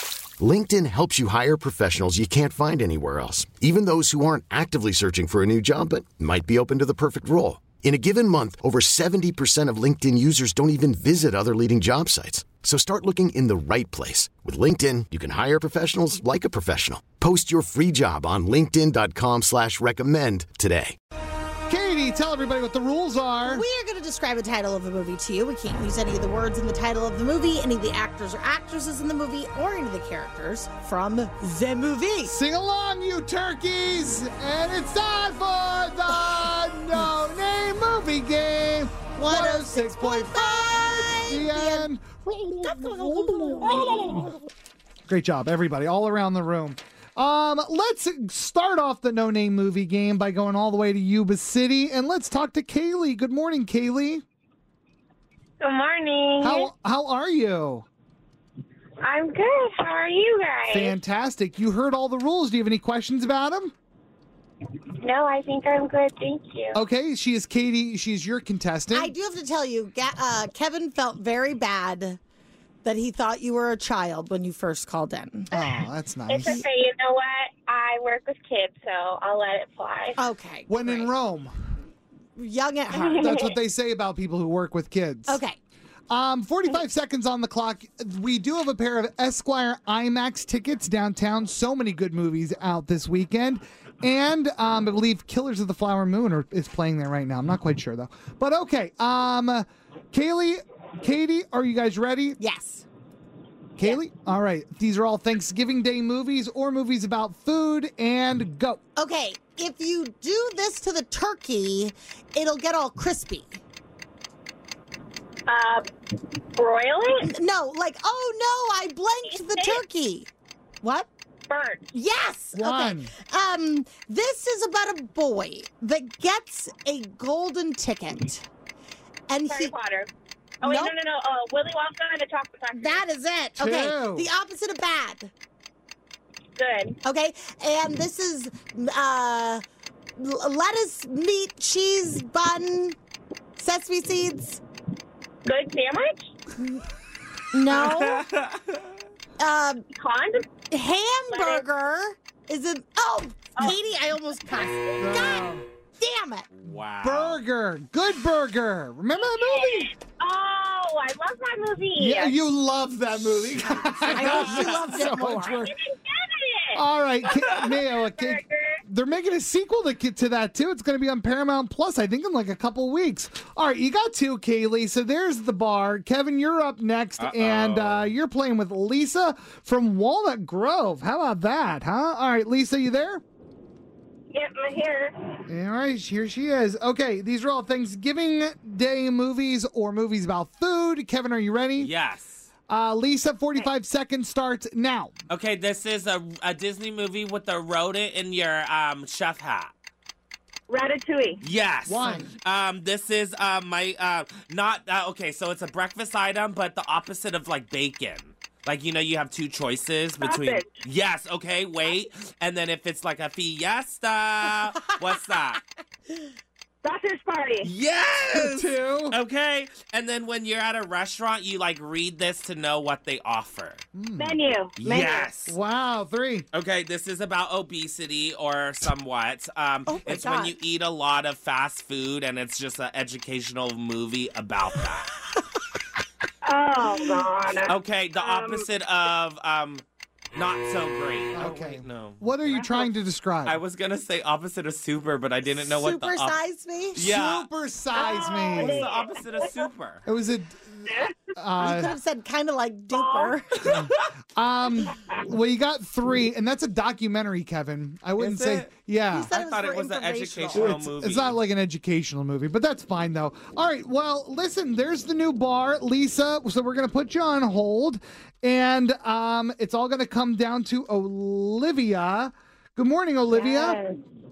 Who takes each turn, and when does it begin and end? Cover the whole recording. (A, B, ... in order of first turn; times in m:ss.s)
0:00.4-0:21.0 A
0:21.7-0:23.6 B
0:23.4-0:32.4 C
0:32.3-0:44.3 B
0:39.2-0:41.9 C
0:42.6-0:44.3 C
0:45.1-0:54.2 B
0:55.6-0:56.7 D
0:56.4-0:57.9 B
0:59.0-1:01.0 D
1:00.7-1:03.7 B
1:05.0-1:06.8 D
1:06.8-1:09.1 B
1:08.9-1:12.2 C
1:12.8-1:15.7 C
1:15.5-1:16.6 B
1:16.3-1:20.0 D
1:20.2-1:21.2 C
1:20.7-1:21.5 B
1:22.4-1:23.5 C
1:23.2-1:25.4 B
1:25.3-1:25.6 C
1:26.1-1:42.4 B
1:42.4-1:42.9 C
1:43.8-1:48.8 B
1:49.0-1:53.6 C
1:55.5-1:55.9 D
1:56.6-1:57.3 D
1:57.2-2:00.3 C
1:59.2-1:59.8 D
2:00.8-2:01.1 C
2:01.5-2:01.9 D
2:01.9-2:08.5 C
2:02.5-2:03.1 B
2:09.3-2:09.7 C
2:09.4-2:10.1 D
2:10.6-2:13.0 D
2:10.6-2:10.9 C
2:12.7-2:15.3 C
2:13.6-2:14.3 B
2:16.6-2:17.0 D
2:17.0-2:19.6 C
2:20.2-2:23.0 C
2:23.6-2:24.6 C
2:25.5-2:26.1 D
2:27.5-2:28.3 C
2:27.7-2:28.8 E
2:29.4-2:29.8 C
2:30.0-2:30.5 D
2:30.7-2:36.5 C
2:34.5-2:35.0 D
2:35.0-2:35.6 B
2:36.5-2:37.4 E
2:37.0-2:39.9 B
2:39.2-2:42.4 D
2:42.0-2:45.7 B
2:43.6-2:45.7 C
2:44.1-2:45.0 E
2:45.6-2:46.8 D
2:46.8-3:03.2 B
2:47.6-2:47.9 E
2:48.0-2:48.8 D
2:57.2-2:58.1 E
3:04.3-3:05.4 D
3:05.5-3:11.9 B
3:11.8-3:12.5 E
3:12.7-3:15.1 B
3:15.3-3:19.7 E
3:20.7-3:21.4 D
3:21.4-3:35.6 E
3:21.9-3:22.3 B
3:30.2-3:30.7 D
3:36.8-3:37.7 D
3:37.6-3:43.8 E
3:38.3-3:39.2 B
3:43.9-3:44.4 B
3:44.2-3:45.3 D
3:44.8-3:45.6 E
3:45.5-3:46.5 B
3:46.5-3:55.2 E
3:49.9-3:50.6 C
3:56.5-3:58.6 D
3:57.7-4:02.9 E
4:01.4-4:03.6 B
4:03.5-4:06.4 E
4:05.7-4:07.0 C
4:06.9-4:07.5 E
4:07.0-4:08.9 B
4:08.0-4:09.7 D
4:08.5-4:10.0 E
4:10.0-4:12.0 B
4:11.6-4:13.7 C
4:13.6-4:19.3 B
4:18.2-4:18.7 E
4:19.1-4:20.8 C
4:19.3-4:21.4 E
4:20.5-4:33.8 B
4:33.3-4:34.0 D